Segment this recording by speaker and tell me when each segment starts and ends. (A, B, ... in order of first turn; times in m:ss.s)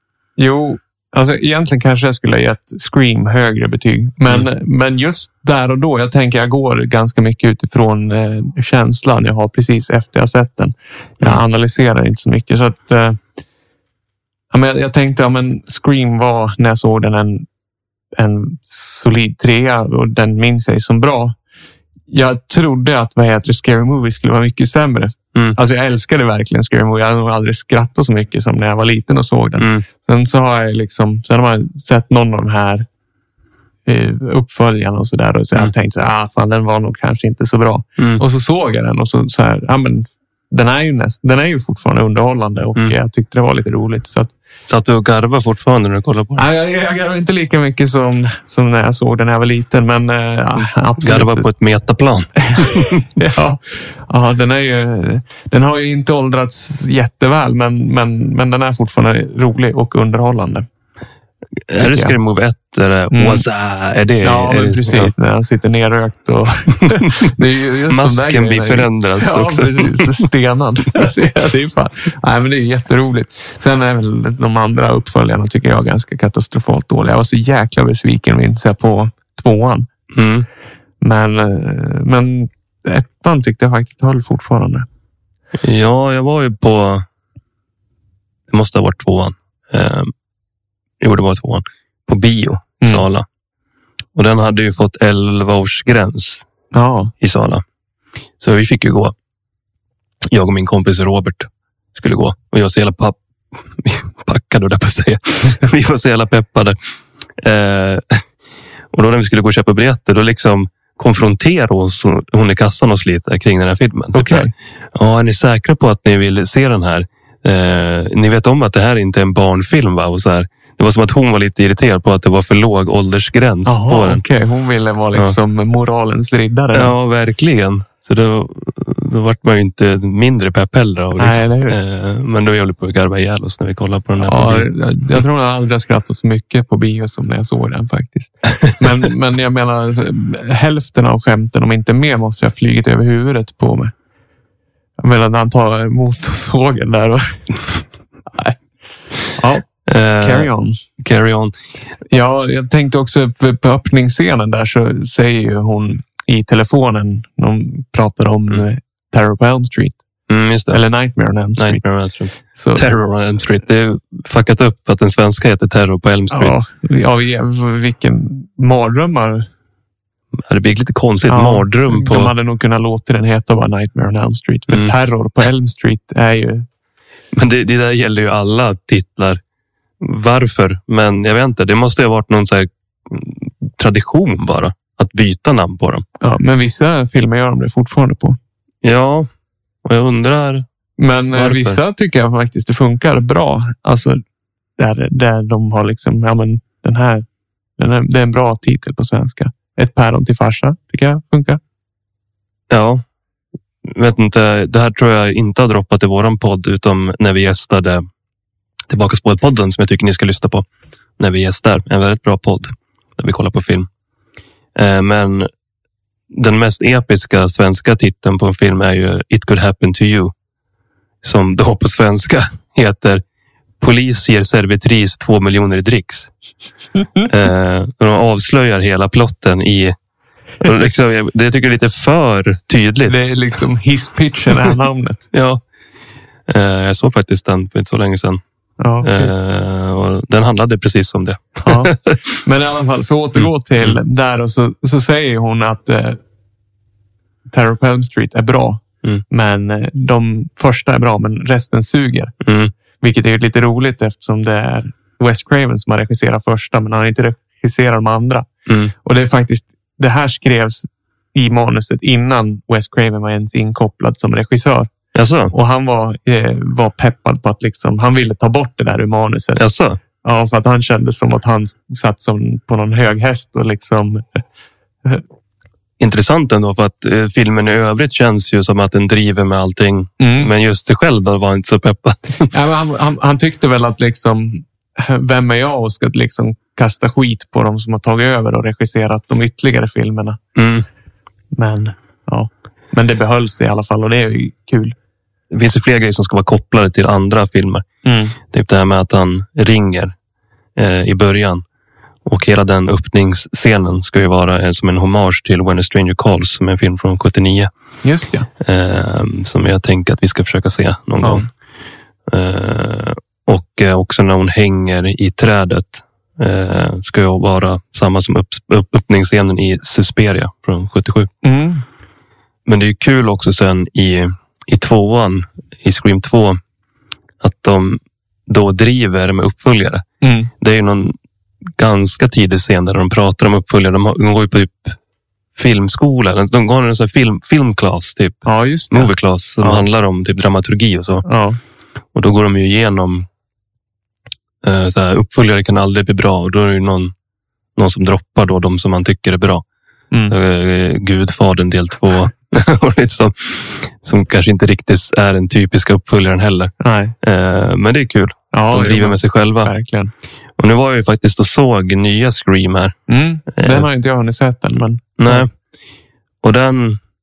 0:00.4-0:13.2 A
0:14.5-0:17.5 A
0:18.2-0:21.4 A
0:22.1-0:32.9 A
0:29.6-0:29.8 B
0:33.9-0:44.3 A
0:44.7-0:46.4 B
0:46.4-0:51.5 A
0:51.0-0:53.0 B
0:52.5-1:00.7 A
1:01.7-1:05.1 B
1:01.8-1:02.2 A
1:03.1-1:03.4 A
1:04.2-1:19.9 A
1:06.9-1:07.3 B
1:07.9-1:10.2 B
1:20.1-1:20.5 B
1:21.0-1:24.9 A
1:25.6-1:27.0 B
1:28.5-1:30.1 B
1:31.0-1:33.2 B
1:34.2-1:36.4 B
1:36.7-1:37.1 A
1:37.2-1:37.6 B
1:38.4-1:39.1 B
1:40.3-1:46.8 B
1:47.4-1:48.2 B
1:48.9-2:04.2 B
1:54.1-1:54.5 A
2:03.7-2:06.9 A
2:06.7-2:14.7 B
2:11.2-2:11.8 A
2:14.2-2:23.9 A
2:25.0-2:27.5 A
2:29.4-2:29.7 A
2:29.9-2:31.5 B
2:30.2-2:30.8 A
2:32.1-2:40.0 A
2:40.3-2:40.8 B
2:40.7-2:41.8 A
2:41.6-2:46.6 B
2:42.5-2:42.9 A
2:46.3-2:49.5 A
2:50.4-2:52.3 B
2:51.3-2:56.7 A
2:57.3-2:59.4 B
3:00.0-3:06.0 B
3:06.2-3:08.4 A
3:08.8-3:09.3 B
3:09.8-3:10.7 B
3:11.0-3:14.2 A
3:11.3-3:11.8 B
3:14.8-3:17.2 A
3:17.8-3:21.6 A
3:22.7-3:23.0 B
3:23.8-3:28.0 B
3:28.9-3:30.6 B
3:31.2-3:33.9 B
3:34.8-3:35.5 B
3:36.3-3:40.3 B
3:41.2-3:43.2 B
3:43.8-3:46.3 B
3:47.2-3:49.9 B
3:50.6-3:53.3 B
3:53.1-3:55.3 A
3:55.3-3:55.6 B
3:56.5-3:58.4 B
3:58.8-3:59.3 A
3:59.0-4:02.2 B
4:01.6-4:06.2 A
4:03.4-4:04.0 B
4:07.5-4:12.3 A
4:12.4-4:12.7 B
4:13.0-4:18.5 A
4:18.7-4:18.9 B
4:19.0-4:24.9 A
4:25.2-4:25.5 B
4:25.5-4:29.6 A
4:29.6-4:30.0 B
4:30.2-4:34.4 A
4:36.0-4:42.5 B
4:40.2-4:40.5 A
4:42.5-4:50.4 A
4:50.6-4:50.9 B
4:51.5-4:55.0 A
4:55.5-4:57.8 B
4:58.0-4:58.4 A
4:58.5-5:00.1 B
5:00.8-5:01.6 B
5:02.2-5:07.7 B
5:08.0-5:08.5 A
5:08.6-5:11.5 B
5:11.2-5:11.5 A
5:12.3-5:21.3 B
5:21.4-5:21.8 A
5:22.7-5:26.6 B
5:27.4-5:30.0 B
5:30.2-5:30.5 A
5:30.6-5:31.2 B
5:31.8-5:35.0 B
5:35.6-5:41.2 B
5:38.4-5:39.8 A
5:41.2-5:41.6 A
5:42.1-5:43.3 B
5:44.6-5:47.1 B
5:47.8-5:49.6 B
5:50.3-5:59.7 B
5:56.8-5:57.2 A
5:58.5-6:00.1 A
6:00.6-6:03.0 B
6:03.1-6:05.5 A
6:03.5-6:03.9 B
6:05.2-6:05.5 B
6:06.4-6:07.0 B